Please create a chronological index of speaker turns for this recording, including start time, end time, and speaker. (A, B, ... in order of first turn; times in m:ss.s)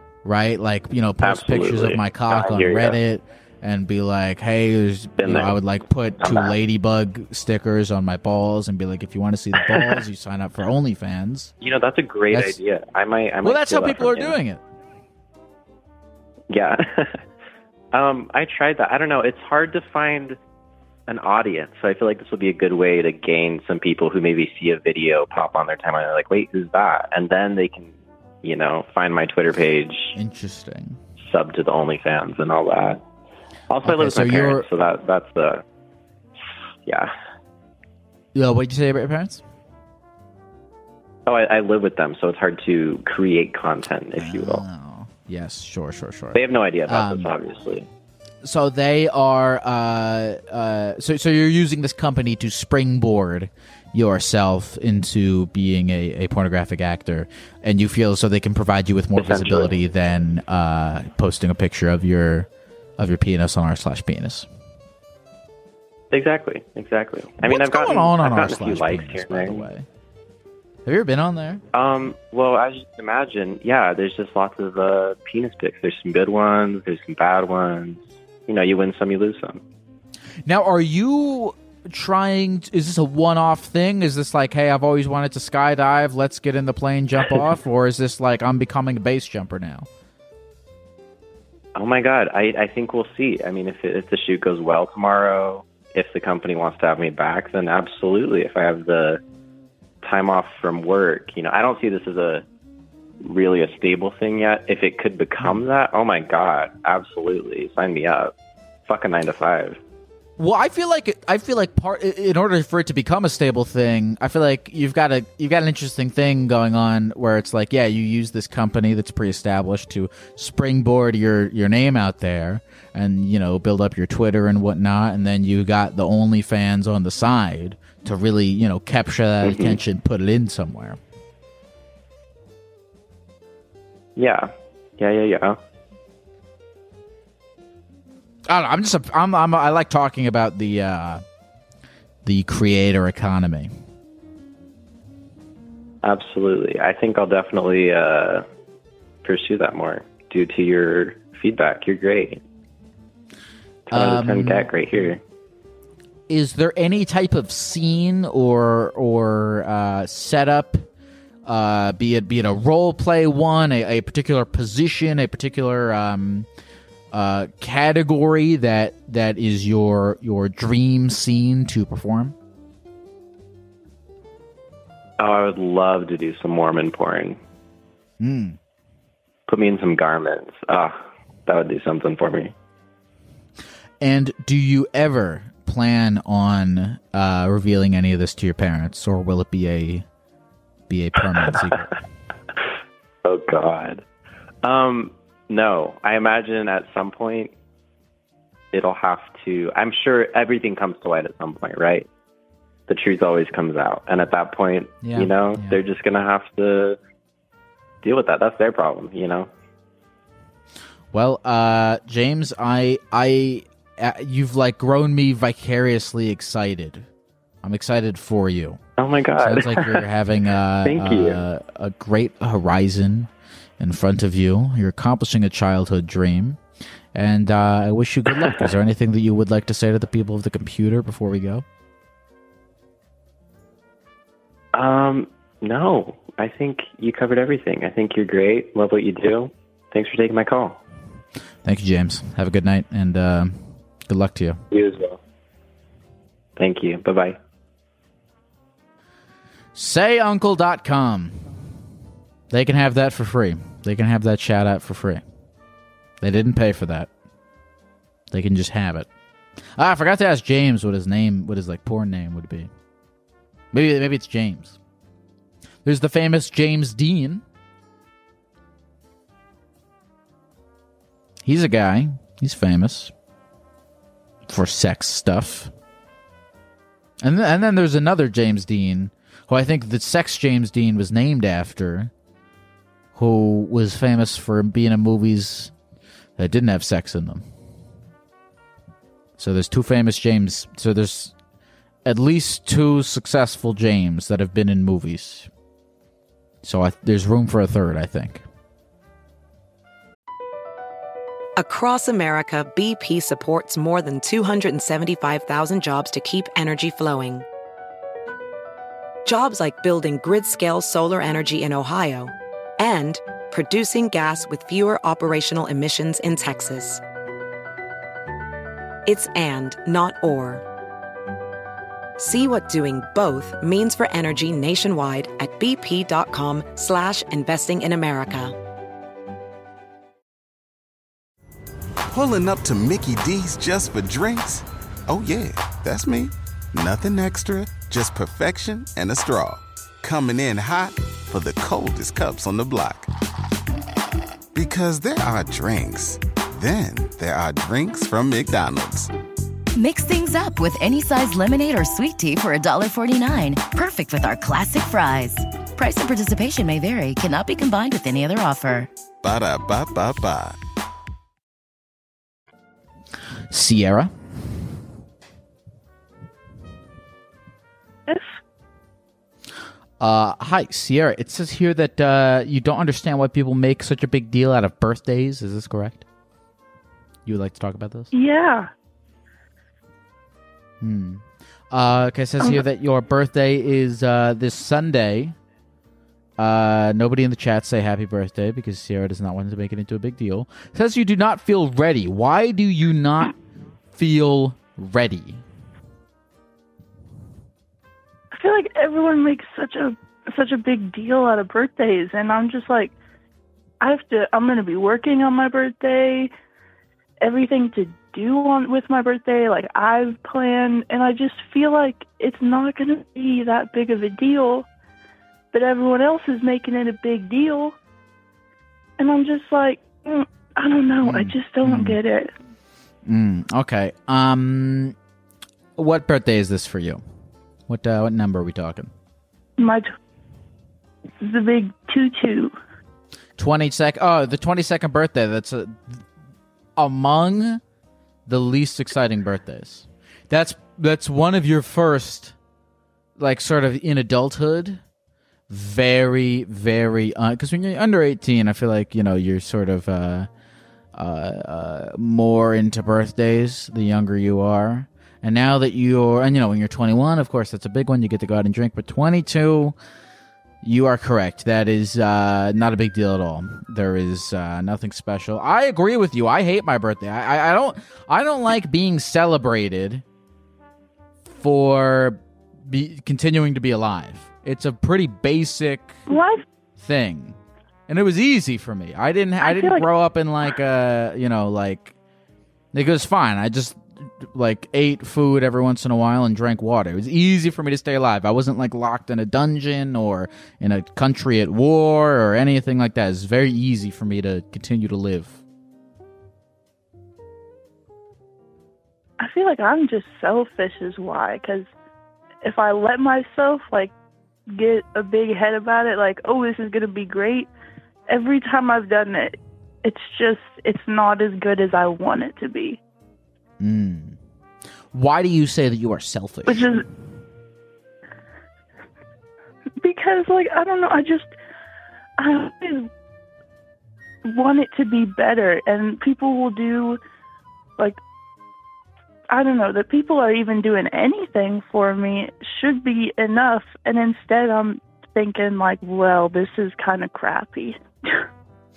0:00.2-0:11.5 A
0:01.2-0:03.0 B
0:05.2-0:05.6 B
0:06.2-0:06.6 B
0:09.6-0:10.0 B
0:11.6-0:14.4 B
0:12.3-0:12.6 A
0:13.4-0:14.6 A
0:16.5-0:17.2 B
0:17.9-0:20.4 B
0:21.1-0:30.2 B
0:30.2-0:31.0 A
0:31.2-0:33.0 B
0:33.7-0:35.6 B
0:33.8-0:34.7 A
0:38.3-0:39.4 A
0:41.3-0:44.6 B
0:44.2-0:47.3 A
0:46.3-0:47.9 B
0:48.4-1:02.5 A
0:59.2-0:59.7 B
1:03.0-1:04.5 A
1:06.1-1:09.6 B
1:07.4-1:09.8 A
1:10.8-1:11.6 A
1:11.7-1:19.6 B
1:20.5-1:29.9 A
1:31.8-1:39.2 B
1:40.0-1:42.4 B
1:43.2-1:48.3 B
1:48.9-1:49.8 B
1:50.4-2:11.0 A
2:09.4-2:09.8 B
2:14.2-2:15.6 B
2:18.5-2:21.2 A
2:22.2-2:23.7 A
2:26.0-2:28.5 B
2:29.2-2:32.4 B
2:33.9-2:35.2 B
2:33.9-2:35.2 A
2:36.3-2:40.9 A
2:41.4-2:46.5 A
2:47.1-2:52.4 A
2:55.2-2:57.4 B
2:58.2-2:58.6 A
2:59.5-3:02.5 B
3:04.0-3:10.1 A
3:10.9-3:12.0 A
3:13.2-3:14.0 B
3:14.6-3:17.5 B
3:18.7-3:22.1 B
3:22.9-3:27.0 B
3:25.0-3:25.8 A
3:28.0-3:29.5 B
3:31.1-3:37.1 A
3:37.6-3:38.8 A
3:39.0-3:40.1 B
3:39.4-3:46.6 A
3:40.8-3:41.4 B
3:47.1-3:51.6 A
3:48.4-3:48.7 B
3:54.7-4:00.8 B
4:01.6-4:04.6 A
4:04.7-4:05.2 B
4:06.6-4:07.4 B
4:09.7-4:11.6 A
4:12.5-4:15.2 A
4:16.2-4:17.1 A
4:18.3-4:19.1 A
4:19.8-4:22.7 A
4:23.7-4:24.8 A
4:25.8-4:27.4 A
4:31.4-4:33.1 A
4:34.5-4:35.7 A
4:37.2-4:42.1 A
4:43.2-4:45.7 A
4:46.4-4:47.5 A
4:49.4-4:51.4 A
4:52.0-4:55.5 A
4:56.6-4:58.4 A
5:01.6-5:07.5 C
5:09.3-5:17.0 C
5:19.1-5:20.6 C
5:22.2-5:28.6 C
5:32.1-5:43.1 D
5:44.5-5:49.1 D
5:49.8-5:58.9 E
5:59.2-6:00.6 D
6:03.5-6:04.6 A
6:08.1-6:08.4 F
6:10.0-6:16.0 A
6:17.2-6:18.1 A
6:18.1-6:18.7 F
6:20.8-6:25.4 A
6:26.4-6:33.4 A
6:33.9-6:35.4 A
6:38.3-6:42.9 F
6:43.8-6:46.3 F
6:47.2-6:54.7 F
6:55.5-6:57.8 F
6:59.0-7:02.3 F
7:01.0-7:02.0 A
7:03.0-7:05.0 A
7:05.8-7:07.0 A
7:07.7-7:08.9 A
7:09.6-7:09.9 F
7:11.2-7:12.5 F
7:13.4-7:16.0 A
7:16.8-7:17.6 A
7:18.3-7:22.4 A
7:23.2-7:24.8 A
7:25.5-7:30.3 A
7:30.9-7:39.8 A
7:40.6-7:50.0 A
7:51.2-7:56.1 A
7:56.1-7:56.4 F
7:56.8-7:57.4 A
7:57.9-8:01.9 A
7:59.4-7:59.9 F
8:02.7-8:15.4 A
8:19.2-8:21.7 F
8:22.4-8:23.9 F
8:24.5-8:27.5 F
8:28.1-8:32.8 F
8:33.6-8:34.2 A
8:34.9-8:36.8 A
8:36.5-8:36.8 F
8:39.8-8:41.3 F
8:42.2-8:42.9 F
8:44.2-8:47.0 F
8:49.3-8:57.8 F